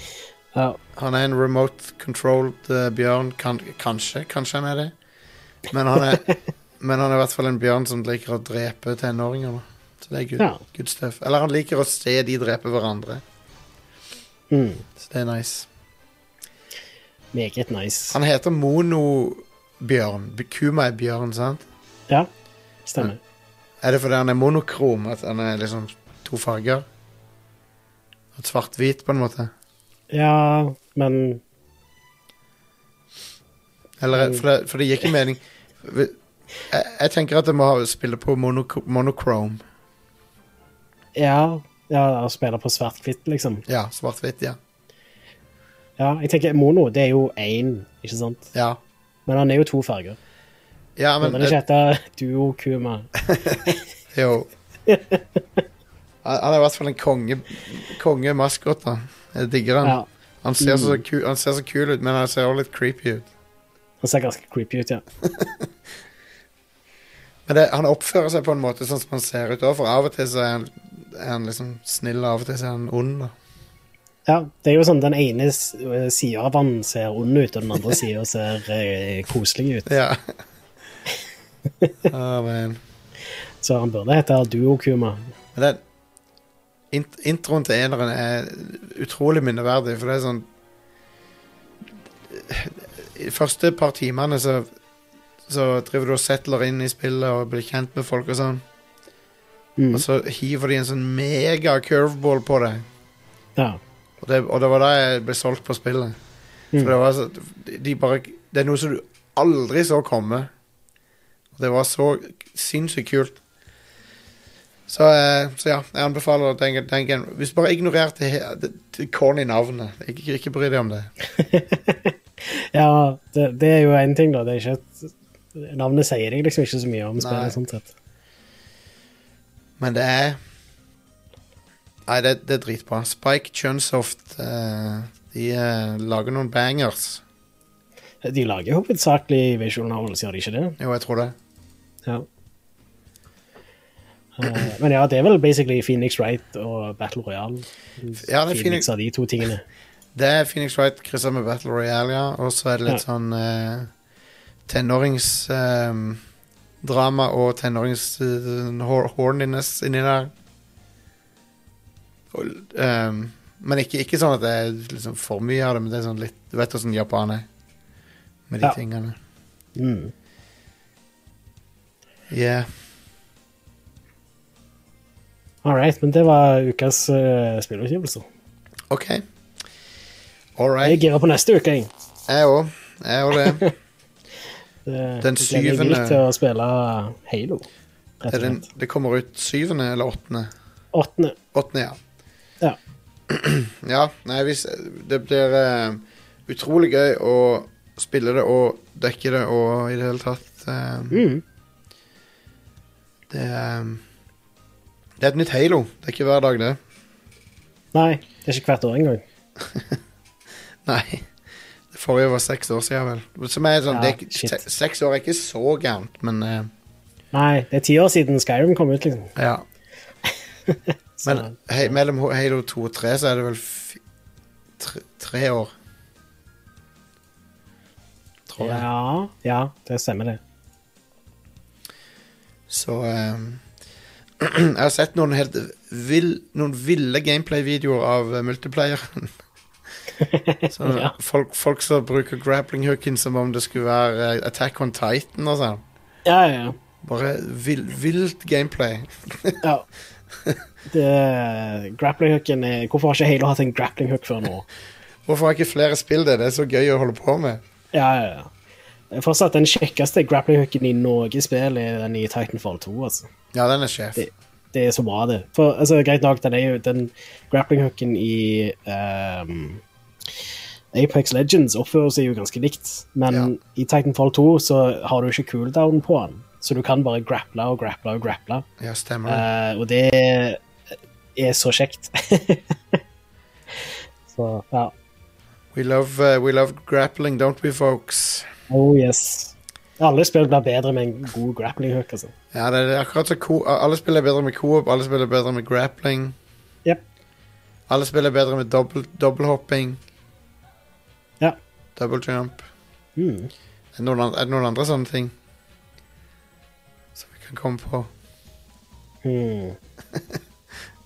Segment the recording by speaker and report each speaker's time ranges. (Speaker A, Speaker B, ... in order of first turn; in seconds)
Speaker A: 0.9-4.9, 5.7-13.2, 15.0-15.7, 18.1-21.6, 23.8-26.9, 28.3-29.5, 34.0-36.1, 36.7-39.6, 43.7-44.6, 48.5-48.8, 51.0-51.6, 53.3-53.6, 54.1-54.5, 56.2-63.3, 65.3-65.6, 67.5-73.3, 79.8-80.3, 82.1-82.8, 85.5-85.8, 86.9-90.5, 92.3-94.7, 95.5-98.6, 99.9-102.8, 104.2-106.2, 106.8-110.5, 111.5-113.4, 114.9-121.1, 127.2-127.5, 129.8-130.4, 132.1-137.2, 140.8-141.3, 148.2-148.9, 150.1-153.9, 154.7-156.2, 156.8-160.3, 162.3-167.5, 168.5-169.2, 172.3-172.7, 178.9-179.2, 180.6-181.0, 182.3-183.7, 185.2-186.2, 188.3-190.5, 191.5-192.0, 193.3-201.2, 203.3-204.0, 205.2-206.8, 209.6-210.0, 210.8-211.3, 211.9-216.7, 219.3-219.6, 221.2-224.0, 224.8-225.7, 228.5-228.8, 232.7-233.6, 234.4-239.3, 240.7-245.8, 247.0-249.6, 255.2-257.6, 263.5-264.2, 278.8-279.4, 285.7-288.5, 292.5-296.4, 297.9-300.0, 301.9-302.7, 303.9-305.3, 307.1-308.1, 310.1-310.4
Speaker B: 14.5-14.8, 17.3-18.2, 22.9-23.2, 30.1-31.4, 34.1-34.4, 41.1-43.6, 46.0-48.5, 49.3-50.2, 51.2-53.1, 54.9-55.6, 60.6-61.0, 64.0-65.0, 74.3-79.9, 83.6-85.3, 99.8-100.0, 121.3-127.9, 138.2-140.8, 144.4-149.6, 169.8-170.1, 175.6-178.2, 180.8-181.9, 183.4-183.7, 184.8-187.7, 188.2-188.7, 190.9-191.3, 201.1-201.4, 207.9-209.2, 213.9-214.6, 217.3-219.3, 220.2-221.9, 228.6-230.4, 240.2-241.1, 246.2-246.8, 250.9-254.7, 257.9-258.5, 259.1-263.3, 264.2-269.8, 270.9-278.6, 279.2-280.6, 281.4-283.0, 283.7-284.9, 288.7-292.3, 303.2-303.5, 309.2-309.8